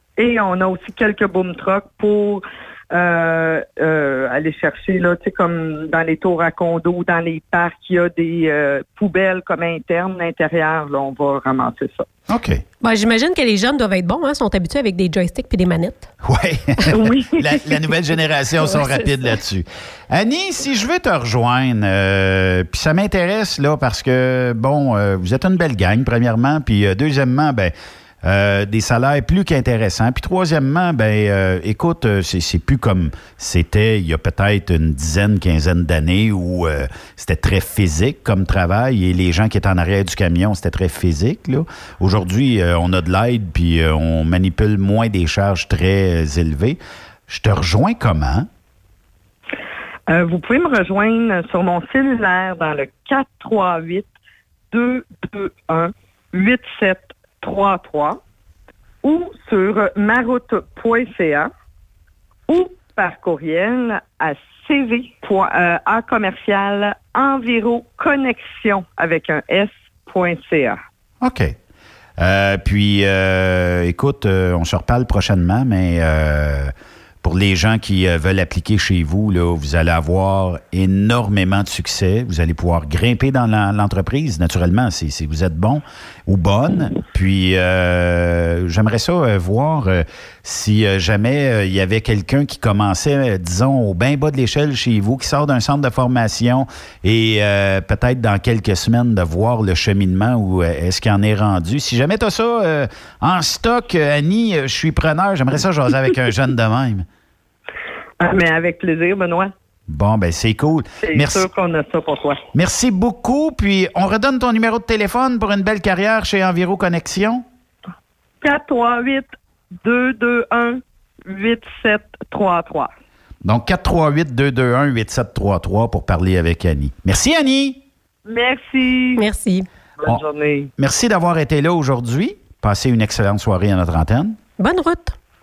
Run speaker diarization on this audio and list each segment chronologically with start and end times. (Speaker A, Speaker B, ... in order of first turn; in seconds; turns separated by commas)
Speaker A: 0.2-12.1, Speaker B: 12.3-12.6, Speaker C: 12.8-16.1, Speaker B: 16.2-48.5, Speaker A: 16.9-17.6, Speaker C: 18.7-19.2, Speaker A: 50.1-54.1, Speaker A: 54.7-58.2, Speaker A: 59.0-61.5, Speaker A: 62.5-70.8, Speaker B: 71.2-71.5, Speaker B: 72.2-76.7, Speaker B: 77.2-107.1, Speaker A: 108.2-109.5, Speaker B: 109.9-111.5, Speaker A: 111.0-112.4, Speaker B: 112.5-117.5, Speaker A: 118.4-119.3, Speaker A: 119.8-122.9, Speaker B: 123.4-127.8, Speaker A: 128.3-129.3, Speaker C: 129.2-129.7, Speaker A: 130.0-130.7, Speaker B: 130.8-134.4, Speaker C: 134.6-135.2